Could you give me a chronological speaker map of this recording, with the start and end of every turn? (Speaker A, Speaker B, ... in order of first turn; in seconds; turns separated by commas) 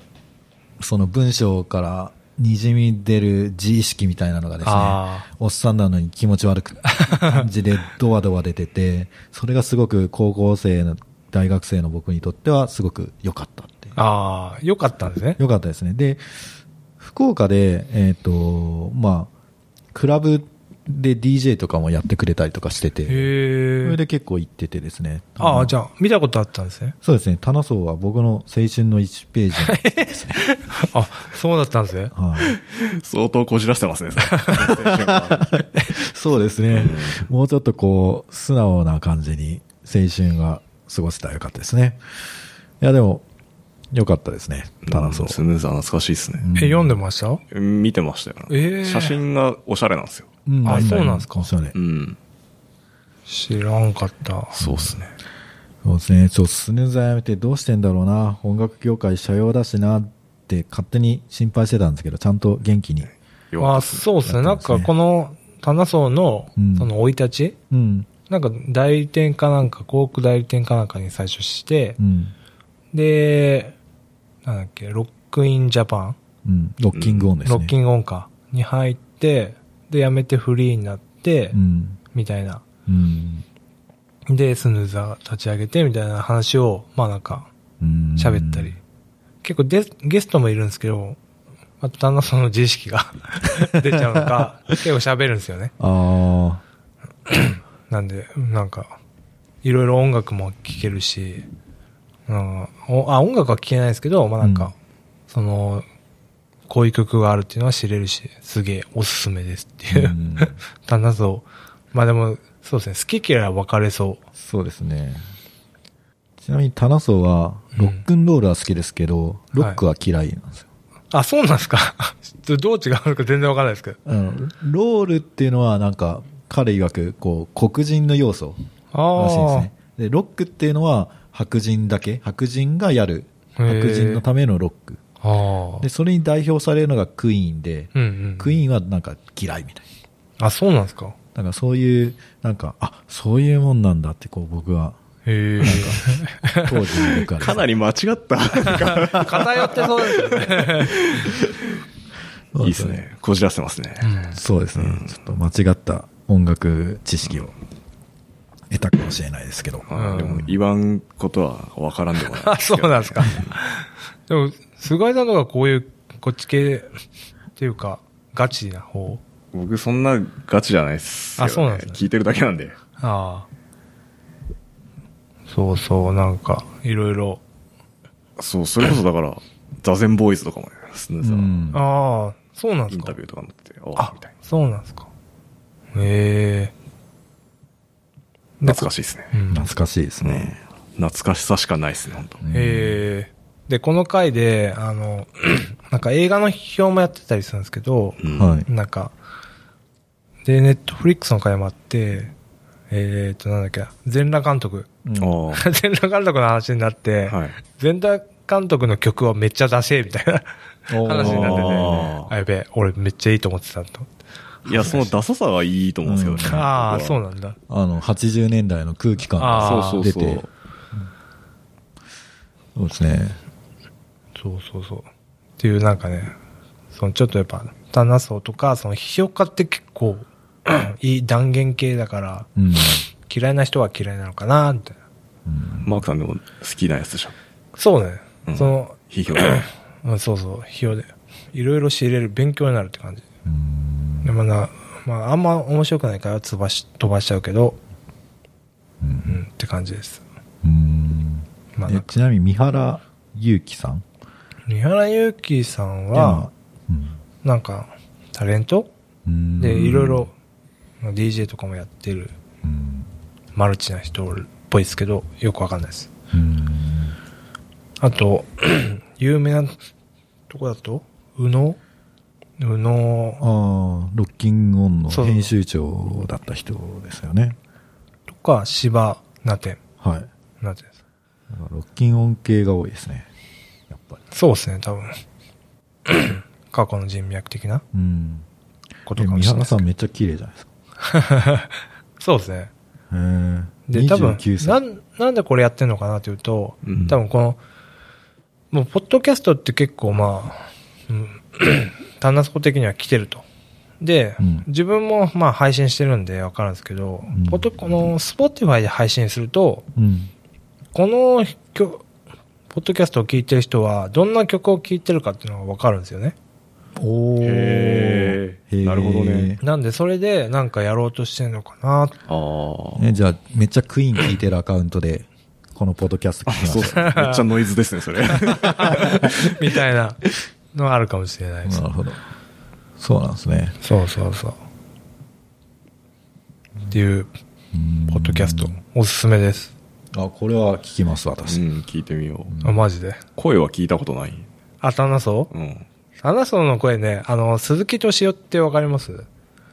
Speaker A: 0.8-14.0, Speaker B: 4.6-5.3, Speaker B: 7.0-7.5, Speaker B: 14.0-15.4, Speaker A: 15.4-16.2, Speaker A: 17.0-19.3, Speaker A: 19.9-23.3, Speaker B: 23.1-24.0, Speaker A: 23.8-25.8, Speaker B: 25.4-26.9, Speaker A: 27.0-30.4, Speaker B: 29.6-32.1, Speaker A: 32.1-32.5, Speaker C: 32.4-35.5, Speaker B: 34.2-34.7, Speaker A: 34.6-42.0, Speaker C: 36.7-37.2, Speaker A: 42.8-43.2, Speaker A: 43.9-45.4, Speaker C: 44.9-46.5, Speaker A: 46.4-47.0, Speaker B: 46.5-47.4, Speaker C: 47.5-50.9, Speaker B: 48.5-49.2, Speaker A: 50.5-51.8, Speaker B: 50.6-51.5, Speaker C: 51.7-52.2, Speaker B: 53.3-54.6, Speaker C: 54.6-55.1, Speaker A: 54.6-55.0, Speaker A: 55.8-63.1, Speaker C: 63.5-64.1, Speaker B: 63.6-67.6, Speaker A: 64.2-64.9, Speaker A: 66.6-66.9, Speaker A: 67.7-68.1, Speaker B: 68.3-72.0, Speaker A: 72.0-72.3, Speaker B: 72.9-73.8, Speaker B: 74.4-76.2, Speaker A: 76.5-77.7, Speaker C: 76.9-77.3, Speaker B: 77.5-81.6, Speaker A: 81.5-82.0, Speaker B: 82.1-82.7, Speaker A: 82.9-83.5, Speaker B: 84.3-87.5, Speaker A: 87.8-88.8, Speaker B: 88.2-88.8, Speaker B: 89.4-91.2, Speaker B: 91.8-95.7, Speaker A: 95.8-96.6, Speaker B: 97.3-99.0, Speaker B: 99.6-101.5, Speaker B: 102.3-104.7, Speaker A: 104.4-104.7, Speaker B: 105.3-105.9, Speaker B: 106.7-114.2, Speaker A: 109.9-110.6, Speaker A: 114.4-115.2, Speaker A: 116.4-120.7, Speaker B: 117.8-118.0, Speaker B: 121.1-124.0, Speaker A: 124.0-128.6, Speaker B: 128.9-129.7, Speaker A: 129.2-135.0, Speaker B: 133.6-134.2, Speaker B: 135.2-135.9, Speaker A: 135.8-139.8, Speaker B: 137.9-138.6, Speaker B: 140.4-141.2, Speaker A: 141.3-145.0, Speaker B: 145.3-146.8, Speaker A: 145.6-147.7, Speaker C: 147.0-151.5, Speaker B: 148.7-150.9, Speaker A: 152.5-153.0, Speaker C: 152.6-154.1, Speaker B: 154.0-154.4, Speaker A: 154.3-157.5, Speaker C: 154.8-155.2, Speaker A: 158.7-160.5, Speaker C: 159.9-163.6, Speaker B: 159.9-160.4, Speaker B: 162.3-166.9, Speaker B: 167.6-169.2, Speaker C: 169.5-172.8, Speaker B: 171.4-172.0, Speaker B: 173.0-173.5, Speaker B: 175.5-177.4, Speaker C: 178.4-181.6, Speaker A: 181.2-181.8, Speaker B: 181.7-183.2, Speaker C: 182.9-184.3, Speaker B: 184.0-185.1, Speaker B: 185.9-186.7, Speaker B: 188.6-189.7, Speaker C: 188.7-189.3, Speaker A: 189.5-190.6, Speaker C: 190.2-192.4, Speaker A: 192.4-193.1, Speaker B: 192.5-199.1, Speaker C: 198.2-198.6, Speaker A: 198.3-198.7, Speaker B: 200.4-202.3, Speaker B: 202.9-204.9, Speaker A: 205.0-205.4, Speaker C: 205.2-205.7, Speaker B: 205.5-210.5, Speaker C: 207.3-207.6, Speaker A: 210.9-212.0, Speaker B: 211.0-214.1, Speaker C: 211.2-212.3, Speaker C: 214.7-217.2, Speaker B: 214.7-215.1, Speaker A: 216.1-216.7, Speaker B: 216.4-217.6, Speaker A: 217.7-221.1, Speaker B: 219.4-220.1, Speaker C: 219.6-220.5, Speaker A: 222.8-223.4, Speaker B: 224.4-225.1, Speaker B: 225.6-226.3, Speaker B: 226.9-232.5, Speaker A: 232.6-233.1, Speaker B: 233.3-235.0, Speaker A: 235.5-236.0, Speaker C: 235.8-237.3, Speaker B: 237.8-243.2, Speaker C: 238.5-239.7, Speaker A: 243.4-244.3, Speaker B: 244.2-247.8, Speaker A: 249.0-249.4, Speaker B: 249.3-250.2, Speaker A: 250.6-254.1, Speaker B: 251.8-252.1, Speaker B: 254.7-256.5, Speaker A: 256.1-257.2, Speaker B: 257.4-258.9, Speaker A: 259.3-260.3, Speaker B: 259.6-260.3, Speaker B: 261.0-262.3, Speaker A: 262.6-263.1, Speaker B: 263.6-266.1, Speaker A: 266.3-267.2, Speaker B: 268.0-269.8, Speaker B: 270.5-271.8, Speaker B: 272.6-273.4, Speaker A: 273.4-277.6, Speaker B: 275.1-275.5, Speaker B: 278.3-279.8, Speaker A: 280.0-280.3, Speaker B: 280.6-280.9, Speaker A: 281.5-283.3, Speaker A: 283.9-284.2, Speaker B: 284.3-285.2, Speaker B: 286.1-287.8, Speaker A: 287.9-288.5, Speaker B: 289.1-289.8, Speaker A: 289.1-290.7, Speaker B: 291.0-292.7, Speaker A: 293.1-294.8, Speaker B: 293.9-297.6, Speaker C: 296.9-297.2, Speaker B: 298.7-303.4, Speaker B: 304.0-309.9, Speaker A: 304.4-304.7, Speaker A: 307.3-307.7, Speaker A: 309.9-310.3, Speaker B: 310.9-312.0, Speaker B: 312.7-316.4, Speaker A: 317.0-319.6, Speaker C: 317.4-319.6, Speaker B: 319.6-322.1, Speaker C: 322.3-323.1, Speaker A: 323.0-327.1, Speaker C: 326.5-329.4, Speaker B: 326.8-327.4, Speaker B: 328.3-330.2, Speaker B: 330.7-331.8, Speaker A: 331.6-332.2, Speaker A: 333.0-333.8, Speaker B: 333.8-334.6, Speaker B: 336.9-337.3, Speaker A: 337.7-338.8, Speaker B: 338.1-339.7, Speaker A: 340.1-341.6, Speaker C: 341.5-342.6, Speaker A: 342.5-342.8, Speaker B: 342.6-343.2, Speaker C: 343.4-344.5, Speaker B: 344.8-345.5, Speaker C: 345.5-345.9, Speaker B: 346.2-349.3